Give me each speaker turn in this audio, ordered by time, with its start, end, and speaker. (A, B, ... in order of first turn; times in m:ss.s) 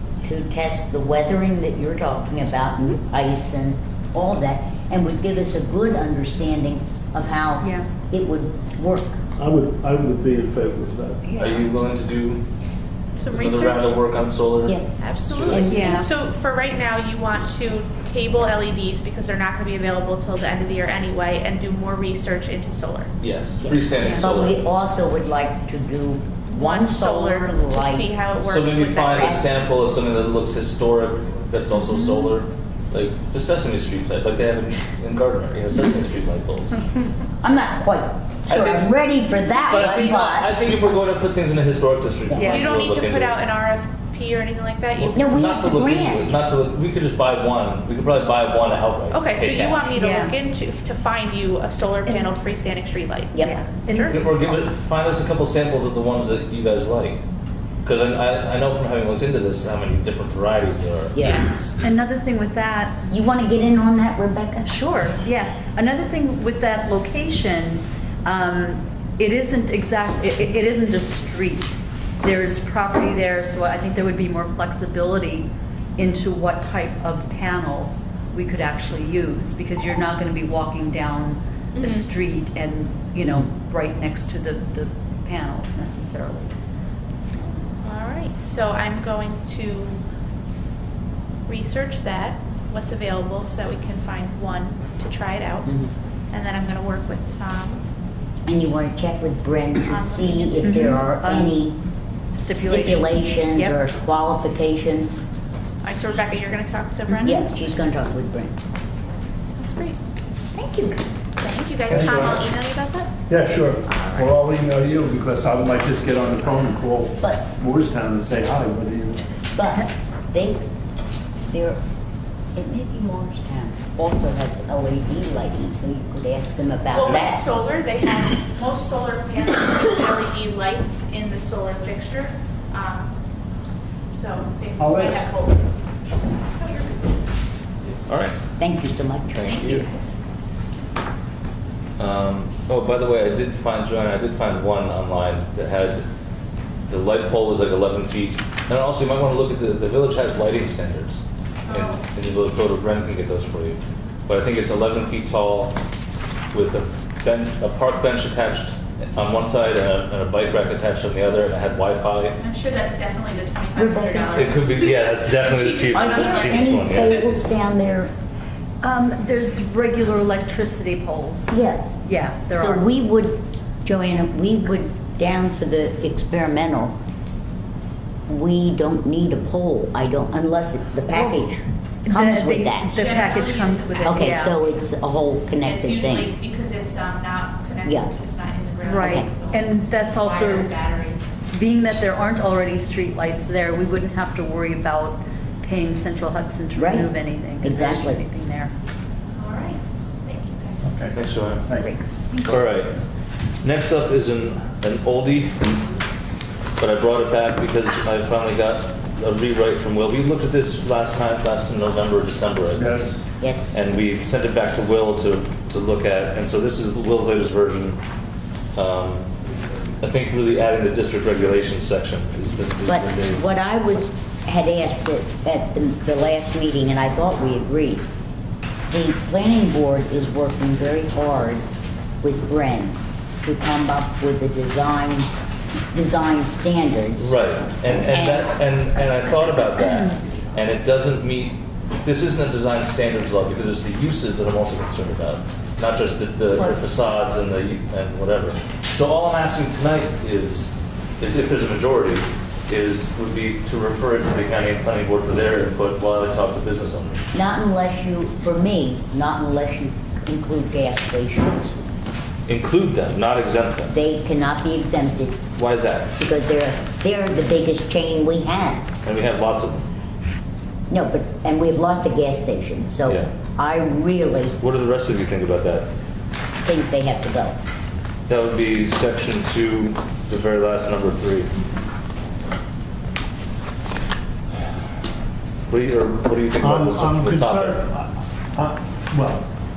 0:00.2-0:09.2 A
0:07.6-0:07.9 B
0:09.4-0:11.2 C
0:11.3-0:11.7 B
0:11.4-0:12.4 D
0:13.2-0:14.0 E
0:13.3-0:15.8 D
0:15.0-0:23.1 E
0:15.5-0:16.1 A
0:15.6-0:16.1 B
0:23.2-0:24.6 D
0:23.6-0:28.1 A
0:26.5-0:29.5 E
0:28.4-0:36.8 D
0:29.1-0:29.4 A
0:31.9-0:32.1 B
0:37.4-0:40.6 A
0:38.5-0:38.9 D
0:39.4-0:43.4 D
0:39.9-0:40.1 B
0:42.3-0:42.6 A
0:42.4-0:42.8 B
0:42.4-0:45.5 E
0:45.0-0:49.9 D
0:45.2-0:46.4 A
0:49.1-0:54.2 E
0:50.0-0:50.4 B
0:53.4-0:54.1 B
0:54.0-0:57.2 D
0:57.8-1:01.3 D
1:01.2-1:01.6 A
1:01.2-1:01.7 E
1:01.8-1:03.1 B
1:03.1-1:04.8 A
1:04.7-1:26.5 B
1:21.8-1:22.1 E
1:27.2-1:27.7 B
1:27.8-1:30.0 E
1:31.5-1:35.7 E
1:36.3-1:37.8 E
1:38.5-1:41.8 A
1:39.9-1:41.0 E
1:40.6-1:41.6 B
1:42.3-1:43.8 B
1:42.5-1:45.2 A
1:45.8-1:47.5 E
1:47.2-1:48.6 A
1:49.6-1:50.0 E
1:50.5-1:51.0 A
1:51.4-1:53.1 E
1:51.9-1:52.4 C
1:53.3-1:59.2 C
1:53.9-1:54.3 E
1:57.2-1:57.5 A
1:59.6-2:00.6 A
2:01.5-2:01.8 A
2:02.5-2:07.4 A
2:06.9-2:13.1 E
2:14.1-2:15.8 E
2:14.8-2:15.2 C
2:16.4-2:17.2 E
2:18.1-2:18.4 D
2:18.6-2:19.9 A
2:19.4-2:19.9 D
2:19.7-2:20.1 E
2:22.0-2:26.0 D
2:26.9-2:35.8 D
2:31.7-2:32.0 E
2:36.5-2:42.4 D
2:42.4-2:47.2 E
2:43.8-2:44.6 A
2:44.4-2:47.4 D
2:45.9-2:48.1 A
2:48.8-2:52.9 B
2:51.5-2:51.9 A
2:52.6-2:57.0 A
2:58.3-3:03.1 A
3:01.1-3:01.4 B
3:02.0-3:04.5 B
3:03.0-3:04.6 E
3:04.0-3:06.3 A
3:05.6-3:11.2 E
3:07.8-3:08.1 A
3:08.8-3:10.7 B
3:11.5-3:18.7 B
3:16.8-3:17.1 A
3:17.6-3:18.2 A
3:19.4-3:20.8 E
3:20.8-3:21.9 C
3:21.1-3:21.6 D
3:21.8-3:22.5 A
3:22.4-3:23.0 D
3:23.6-3:25.8 D
3:26.8-3:33.0 D
3:32.8-3:33.2 C
3:33.7-3:38.0 D
3:38.8-3:39.3 D
3:40.0-3:43.4 D
3:42.9-3:48.0 A
3:48.9-3:51.6 A
3:52.2-3:55.3 A
3:55.9-3:57.4 A
3:57.2-4:17.2 D
3:57.9-3:58.5 A
4:06.6-4:06.8 B
4:17.3-4:21.8 A
4:22.5-4:24.0 D
4:23.9-4:25.4 A
4:25.6-4:26.2 D
4:26.2-4:29.0 A
4:29.0-4:29.9 D
4:30.9-4:34.6 A
4:33.0-4:33.3 D
4:34.6-4:35.9 D
4:36.6-4:37.6 A
4:38.3-4:41.5 D
4:45.7-4:47.8 D
4:46.6-4:49.5 C